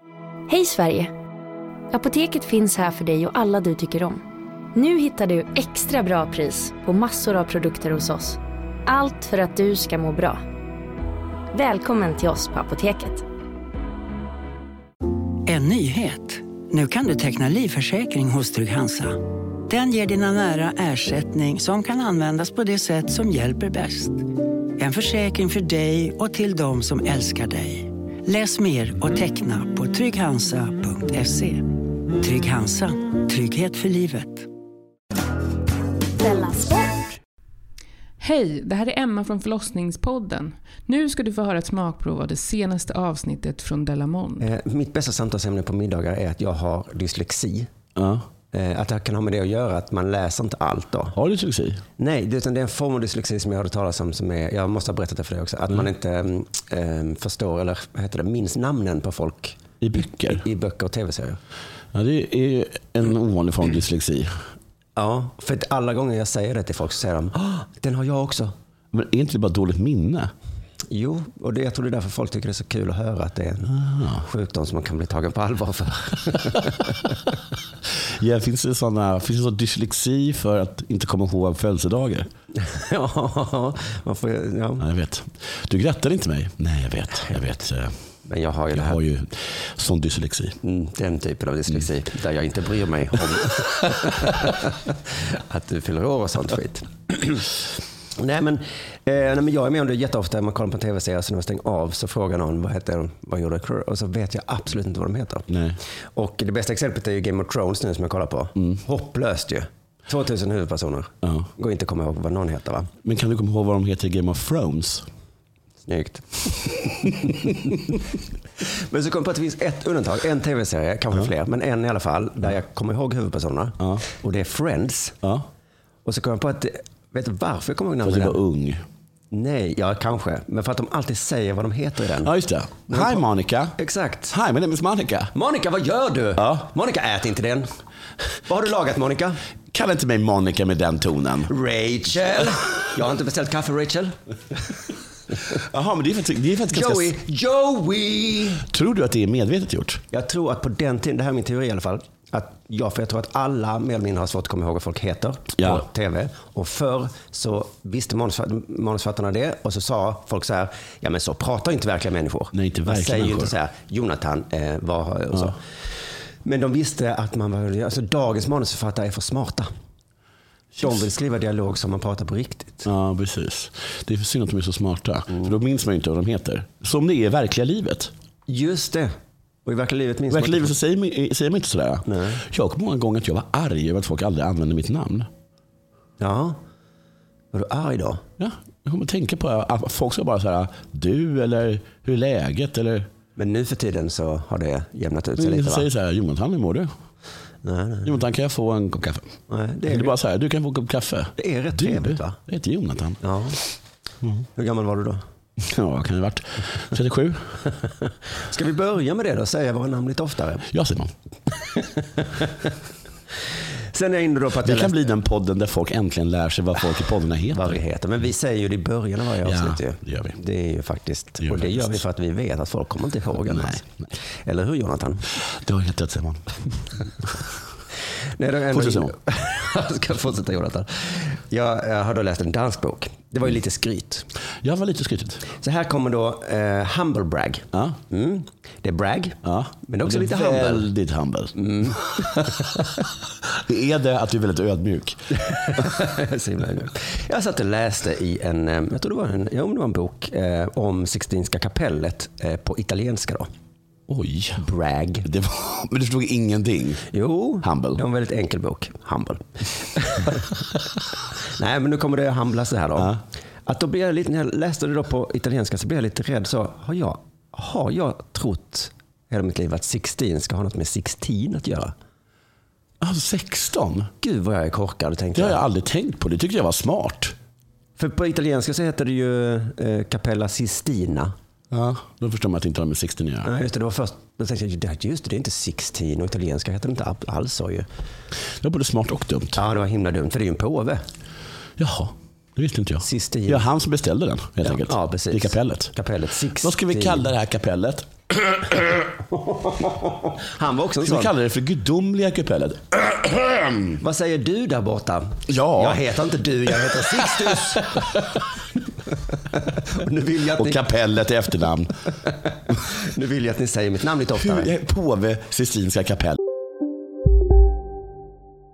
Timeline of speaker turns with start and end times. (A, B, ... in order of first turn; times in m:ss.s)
0:00.5-0:01.1 A
0:01.9-0:04.2 A
0:04.8-0:10.4 A
0:11.5-0:13.2 A
0:15.5-0:19.2 B
0:19.7-0:24.2 B
0:24.8-0:31.7 B
0:32.2-0:34.5 B
0:36.3-0:36.9 A
0:38.2-0:44.5 C
0:44.4-0:47.7 D
0:48.0-0:48.2 E
0:48.5-0:51.2 D
0:51.1-0:51.8 E
0:52.0-1:01.4 D
0:59.8-1:00.4 E
1:01.9-1:04.3 E
1:05.0-1:08.5 D
1:08.9-1:10.3 E
1:10.9-1:16.8 D
1:13.7-1:14.2 E
1:18.1-1:22.3 E
1:22.6-1:24.8 D
1:24.8-1:27.9 E
1:28.2-1:29.0 D
1:28.7-1:30.6 E
1:30.6-1:34.6 D
1:35.3-1:37.5 D
1:38.2-1:45.5 D
1:45.5-1:45.8 E
1:46.1-1:52.9 D
1:53.0-1:55.0 E
1:55.9-1:57.5 D
1:58.8-2:05.2 D
2:06.0-2:08.4 D
2:08.0-2:08.8 E
2:09.3-2:12.3 D
2:12.2-2:13.8 E
2:12.9-2:13.2 D
2:13.8-2:14.3 D
2:14.3-2:15.3 E
2:15.3-2:17.7 D
2:16.4-2:16.7 E
2:18.5-2:19.4 D
2:19.7-2:21.5 E
2:21.5-2:24.1 D
2:25.4-2:27.1 E
2:26.7-2:28.6 D
2:28.7-2:30.0 E
2:30.1-2:45.6 D
2:35.6-2:35.8 E
2:42.5-2:43.5 E
2:46.4-2:49.7 D
2:50.8-2:51.0 E
2:50.8-2:52.9 D
2:52.8-2:58.1 E
2:58.5-2:59.1 D
2:59.6-3:00.8 D
3:00.3-3:05.3 E
3:02.1-3:02.4 D
3:06.2-3:06.6 D
3:07.5-3:08.2 D
3:08.4-3:13.1 E
3:13.4-3:15.9 D
3:15.4-3:16.9 E
3:17.6-3:18.1 D
3:18.0-3:19.3 E
3:19.5-3:20.2 D
3:19.9-3:23.2 E
3:21.4-3:22.4 D
3:23.2-3:23.6 D
3:24.6-3:25.2 D
3:25.6-3:27.4 E
3:28.4-3:30.7 D
3:30.7-3:31.1 E
3:32.0-3:32.5 D
3:33.9-3:35.0 D
3:34.6-3:37.8 E
3:37.5-3:43.9 D
3:39.4-3:40.4 E
3:41.4-3:41.8 E
3:43.5-3:43.8 E
3:44.4-3:45.2 D
3:45.4-3:46.5 E
3:48.4-3:54.3 D
3:48.7-3:49.1 E
3:54.6-3:55.4 E
3:55.6-4:00.9 D
3:59.4-4:01.5 E
4:01.6-4:02.0 D
4:03.7-4:05.2 E
4:05.5-4:13.5 D
4:14.1-4:14.7 E
4:14.6-4:15.3 D
4:15.2-4:17.0 E
4:17.1-4:20.4 D
4:17.6-4:18.0 E
4:21.6-4:23.2 D
4:23.7-4:31.9 D
4:33.0-4:34.1 E
4:34.2-4:35.6 D
4:35.4-4:37.4 E
4:38.0-4:41.3 D
4:41.7-4:43.5 E
4:43.4-4:47.9 D
4:48.6-4:49.6 E
4:49.6-4:51.0 D
4:51.8-4:55.9 E
4:53.0-4:53.6 D
4:54.6-4:57.3 D
4:56.6-4:58.1 E
4:59.4-5:01.3 D
5:01.0-5:03.9 E
5:04.0-5:08.0 D
5:05.5-5:06.0 E
5:09.8-5:10.8 D
5:10.6-5:11.9 E
5:13.0-5:14.7 D
5:14.4-5:16.4 E